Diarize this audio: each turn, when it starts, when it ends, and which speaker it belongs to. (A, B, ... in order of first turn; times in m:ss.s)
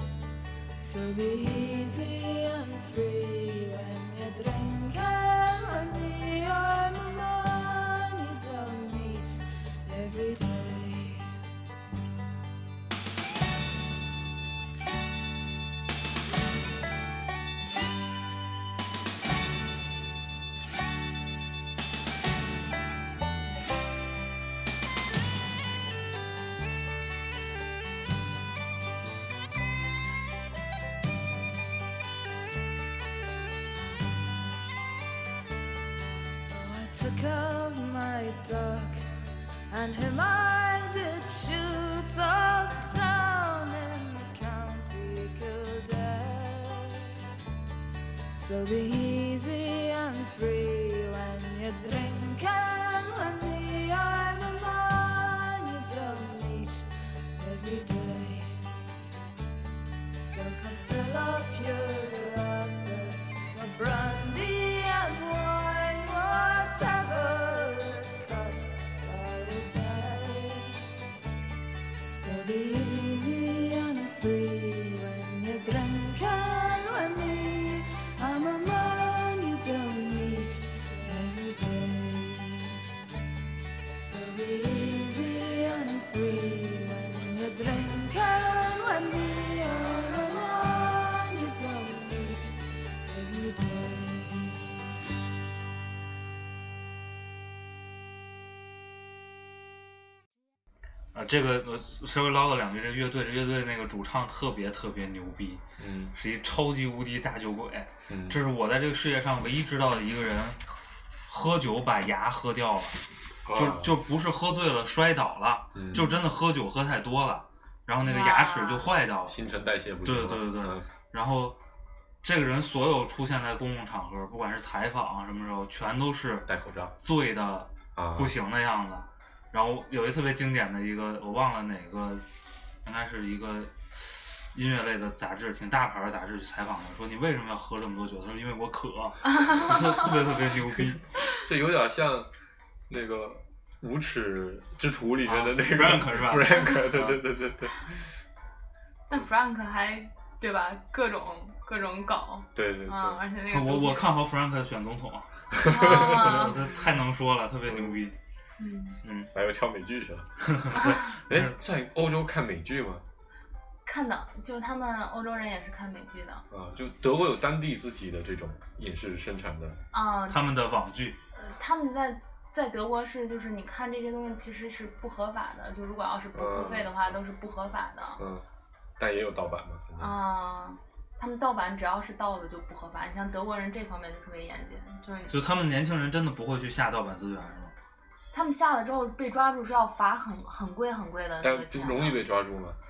0:00.8-0:11.3 A
0:36.5-0:39.1 A
0:39.7-0:47.0 A
0:48.4-0:58.7 A
1:00.2-1:10.8 A
1:12.1-1:22.8 A
1:24.0-1:34.7 A
1:41.1-1:45.6 B
1:45.8-1:46.1 C
1:46.1-1:50.6 B
1:48.1-1:48.4 C
1:51.3-1:53.0 B
1:53.5-1:54.0 C
1:53.5-1:59.4 B
1:55.8-1:56.0 C
1:55.9-1:56.2 D
1:58.0-1:58.9 D
1:59.3-2:00.9 C
2:00.0-2:01.6 B
2:02.2-2:06.5 B
2:06.5-2:06.9 C
2:07.0-2:12.2 B
2:08.0-2:08.3 C
2:12.8-2:21.0 B
2:21.4-2:22.3 C
2:22.9-2:27.8 C
2:25.2-2:27.3 B
2:29.1-2:34.1 D
2:32.6-2:33.2 C
2:33.5-2:38.1 B
2:35.5-2:36.5 C
2:35.6-2:36.8 D
2:37.7-2:38.0 C
2:38.6-2:39.0 D
2:39.0-2:39.3 B
2:39.3-2:43.0 C
2:40.4-2:41.5 B
2:40.8-2:41.1 D
2:43.8-2:46.4 D
2:46.5-2:49.8 C
2:49.9-2:50.4 D
2:50.3-2:51.2 B
2:51.3-2:58.2 D
2:56.3-2:57.2 C
2:58.2-2:58.4 C
2:59.0-3:00.1 C
3:00.0-3:05.4 D
3:05.3-3:07.7 B
3:08.3-3:12.2 D
3:11.4-3:12.8 C